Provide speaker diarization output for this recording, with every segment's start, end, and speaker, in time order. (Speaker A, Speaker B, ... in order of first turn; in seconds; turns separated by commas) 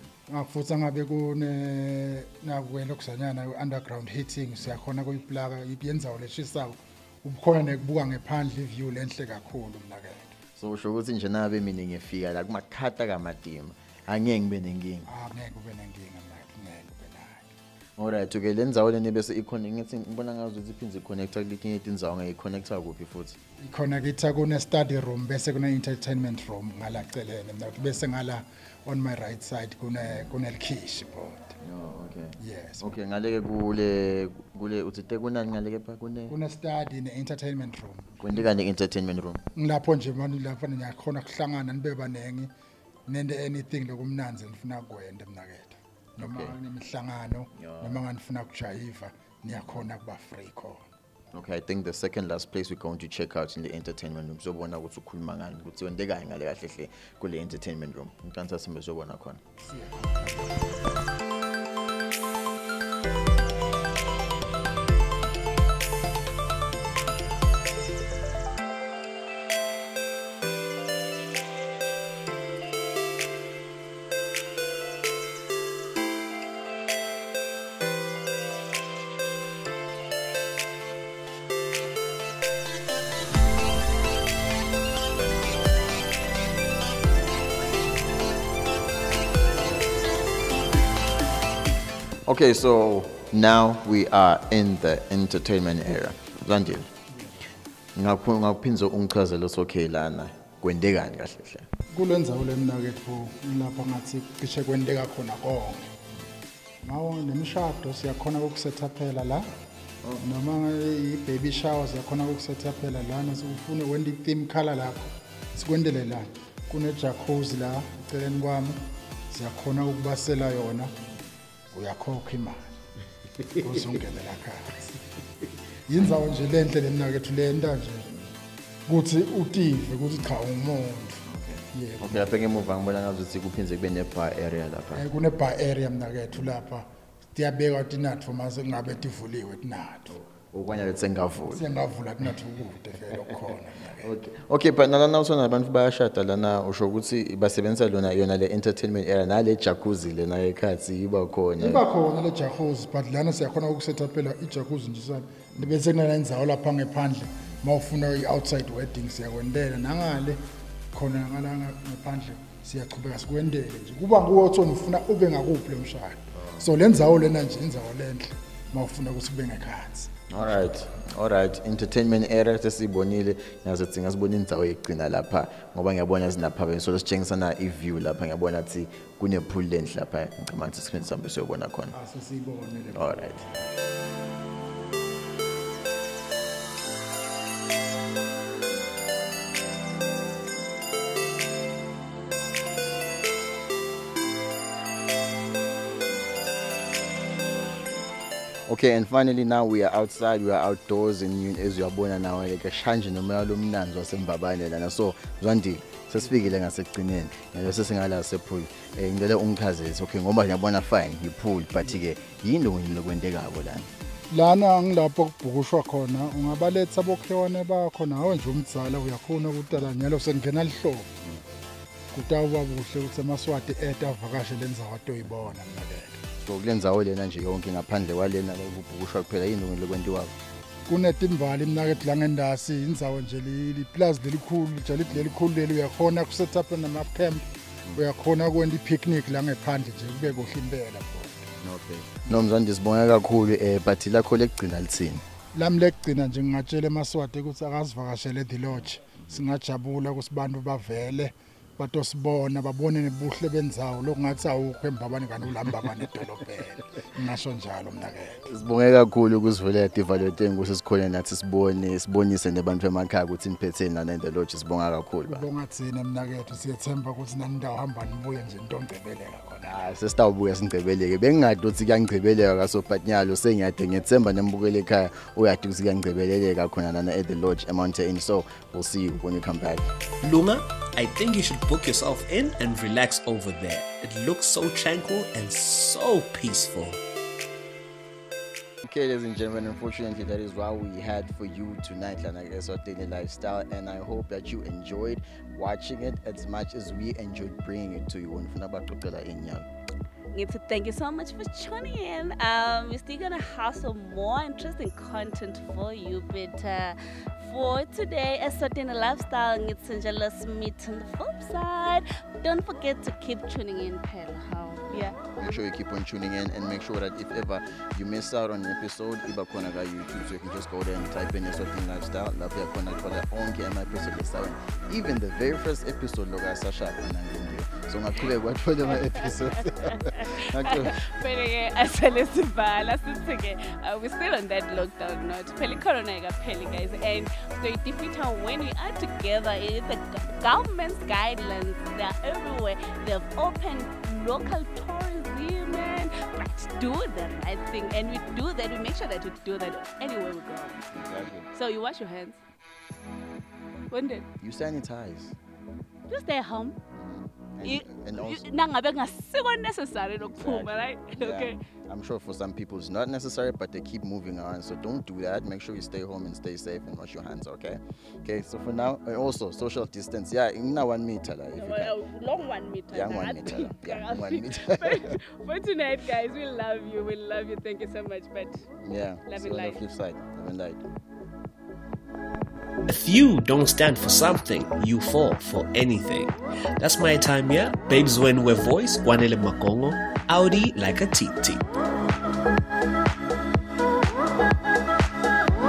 Speaker A: 0.3-10.3, Speaker B: 10.6-15.1, Speaker A: 15.1-17.5, Speaker B: 18.0-23.4, Speaker A: 23.6-31.6, Speaker B: 31.6-36.4, Speaker A: 32.4-32.9, Speaker A: 36.3-38.4, Speaker B: 38.2-39.4, Speaker A: 39.6-42.5, Speaker A: 43.1-50.9, Speaker B: 46.2-46.6, Speaker B: 47.6-48.0, Speaker B: 51.3-59.4, Speaker A: 59.6-60.6, Speaker B: 92.3-96.9, Speaker A: 97.1-97.5, Speaker B: 98.0-101.7, Speaker A: 101.9-105.9, Speaker A: 106.8-109.5, Speaker A: 110.2-120.9, Speaker A: 121.7-122.8, Speaker A: 123.6-125.0, Speaker A: 125.9-128.1, Speaker A: 128.9-132.3, Speaker B: 131.3-135.1, Speaker A: 134.9-140.2, Speaker B: 140.1-141.6, Speaker A: 141.5-144.1, Speaker B: 143.1-143.5, Speaker B: 144.0-151.8, Speaker A: 151.6-160.4, Speaker A: 160.9-170.8, Speaker B: 166.3-166.7, Speaker B: 170.3-181.9, Speaker A: 181.9-183.6, Speaker B: 182.9-183.4, Speaker B: 198.7-213.9, Speaker A: 214.3-221.1, Speaker A: 222.1-226.2, Speaker B: 226.4-230.4, Speaker A: 230.9-241.6, Speaker B: 241.6-245.2, Speaker A: 245.6-258.4, Speaker B: 258.5-265.5, Speaker A: 265.3-269.9, Speaker B: 269.6-279.9, Speaker C: 280.2-287.0, Speaker B: 288.8-299.7, Speaker D: 300.3-315.2, Speaker B: 315.4-331.0, Speaker D: 329.1-350.8, Speaker B: 350.9-351.5, Speaker D: 351.5-352.4, Speaker D: 353.9-354.2, Speaker B: 354.4-355.4, Speaker D: 356.1-356.8, Speaker B: 356.9-358.5, Speaker D: 357.6-361.6, Speaker B: 360.2-372.0, Speaker D: 371.6-378.6, Speaker B: 372.9-375.2, Speaker B: 378.8-380.8, Speaker D: 379.3-379.8, Speaker C: 382.9-391.6